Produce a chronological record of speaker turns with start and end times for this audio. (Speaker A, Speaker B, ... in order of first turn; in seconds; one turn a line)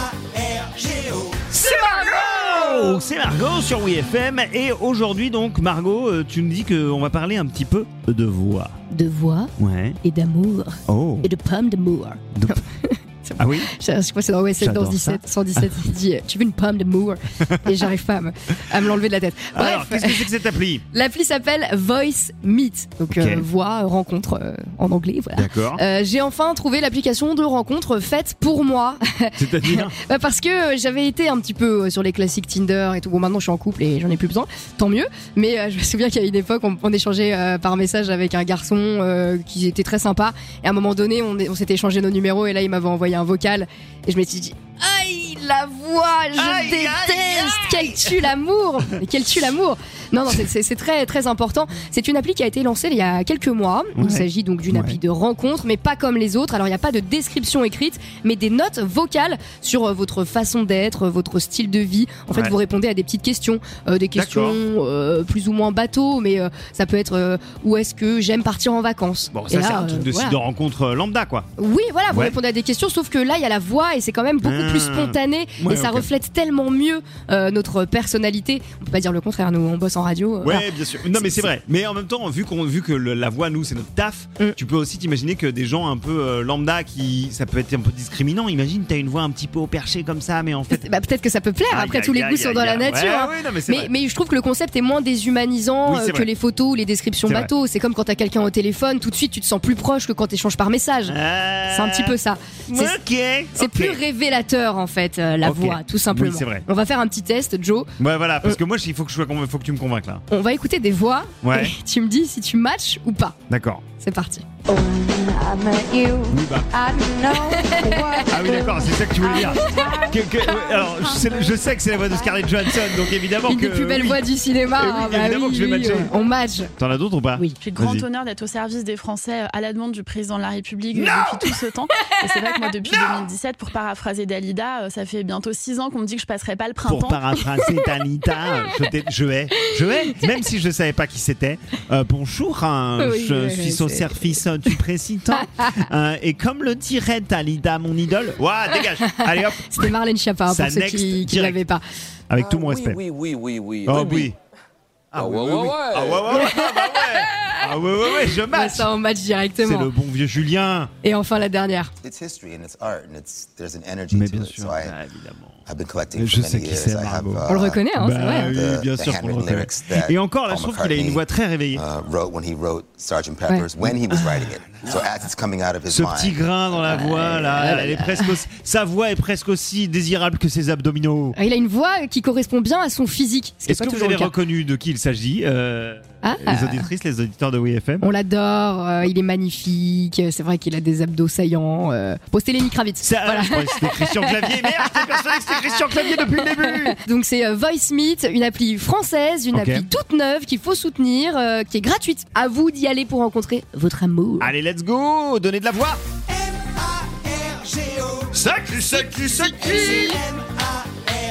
Speaker A: 1.3-8.8
Speaker B: 8.9-9.5
Speaker A: 9.6-10.0
Speaker B: 10.0-20.4
Speaker A: 10.9-11.3
Speaker A: 12.3-12.6
Speaker A: 13.4-13.7
Speaker A: 14.6-15.8
Speaker A: 17.4-17.7
Speaker A: 19.5-20.8
Speaker B: 20.9-70.4
Speaker A: 23.1-23.4
Speaker A: 25.4-25.8
Speaker A: 29.4-30.0
Speaker A: 46.4-48.3
Speaker A: 54.0-55.0
Speaker A: 64.2-64.6
Speaker A: 69.3-71.5
Speaker B: 71.6-81.5
Speaker A: 72.1-72.4
Speaker A: 74.4-76.1
Speaker A: 80.4-90.9
Speaker B: 90.7-101.2
Speaker A: 91.7-93.9
Speaker A: 95.9-96.3
Speaker A: 101.1-104.0
Speaker B: 101.7-103.0
Speaker B: 103.5-107.9
Speaker A: 105.4-106.7
Speaker A: 108.0-110.2
Speaker B: 110.3-113.4
Speaker A: 111.4-111.8
Speaker A: 113.5-113.8
Speaker B: 114.0-114.5
Speaker C: 114.7-122.3
Speaker A: 116.3-116.8
Speaker B: 117.3-118.2
Speaker A: 118.2-124.2
Speaker B: 123.5-126.7
Speaker A: 124.7-126.1
Speaker A: 126.8-128.1
Speaker D: 127.6-137.4
Speaker B: 132.1-133.2
Speaker A: 136.9-149.9
Speaker B: 138.4-138.8
Speaker B: 139.6-140.3
Speaker B: 143.0-144.7
Speaker B: 149.0-151.8
Speaker A: 150.5-151.6
Speaker A: 152.3-153.0
Speaker E: 152.4-154.3
Speaker A: 153.8-154.4
Speaker A: 155.1-158.9
Speaker E: 155.2-156.5
Speaker B: 156.5-157.2
Speaker B: 158.2-159.9
Speaker A: 159.6-160.9
Speaker B: 161.0-161.9
Speaker F: 162.0-165.0
Speaker A: 164.1-165.6
Speaker F: 165.7-176.4
Speaker A: 166.1-171.8
Speaker B: 167.5-168.5
Speaker A: 173.9-174.5
Speaker A: 175.9-181.4
Speaker B: 176.8-178.4
Speaker B: 181.4-184.3
Speaker A: 183.7-188.1
Speaker B: 186.2-186.9
Speaker B: 188.0-204.5
Speaker A: 193.0-197.0
Speaker A: 199.5-199.9
Speaker A: 204.4-206.0
Speaker A: 208.3-210.2
Speaker E: 208.6-210.0